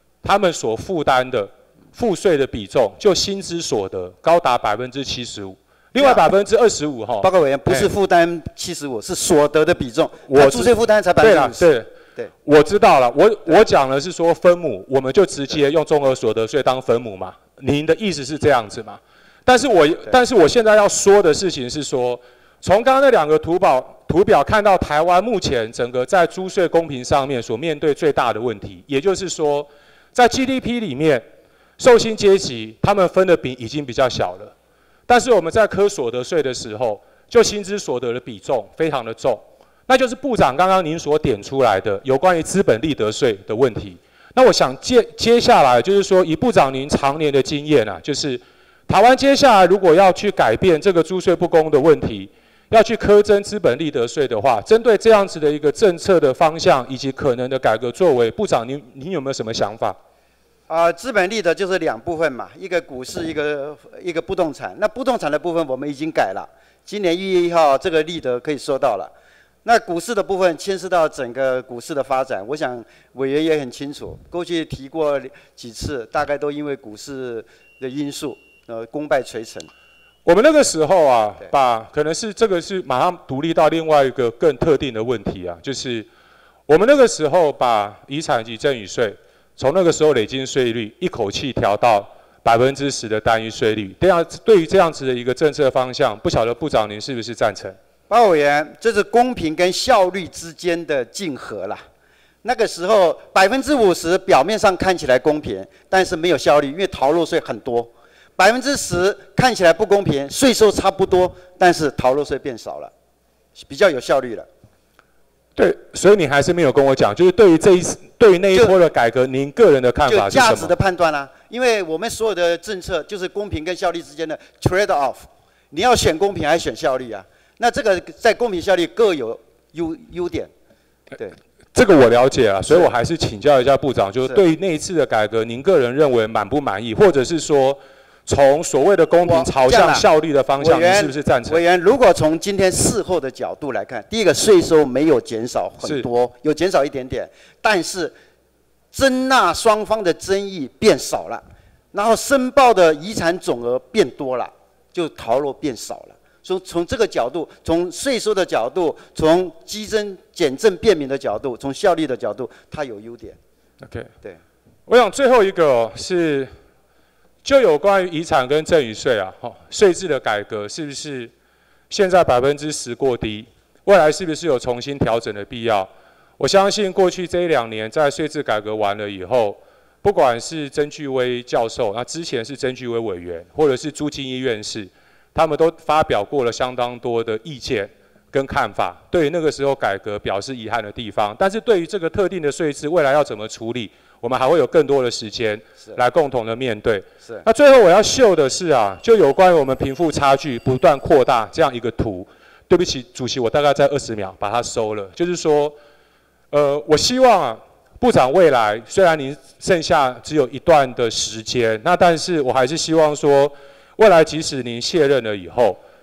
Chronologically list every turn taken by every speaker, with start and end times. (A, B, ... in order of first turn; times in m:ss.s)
0:00.2-0:07.9 A
0:06.0-0:06.2 B
0:07.2-0:12.3 B
0:10.3-0:11.9 A
0:12.4-0:31.2 A
0:31.8-0:34.5 A
0:35.1-1:00.0 A
1:00.7-1:09.1 B
1:09.6-1:19.7 B
1:20.2-1:26.1 A
1:26.7-1:37.8 A
1:38.1-1:41.8 B
1:42.4-1:52.9 B
1:53.5-1:54.5 B
1:55.6-2:00.7 A
2:00.1-2:10.5 B
2:11.7-2:21.6 A
2:12.7-2:12.9 B
2:19.2-2:20.0 B
2:20.6-2:28.1 B
2:25.8-2:26.0 A
2:28.9-2:31.4 B
2:31.9-2:43.4 B
2:43.8-2:44.1 A
2:44.9-2:46.5 A
2:47.4-2:51.3 A
2:51.9-3:25.7 A
3:26.5-3:35.8 A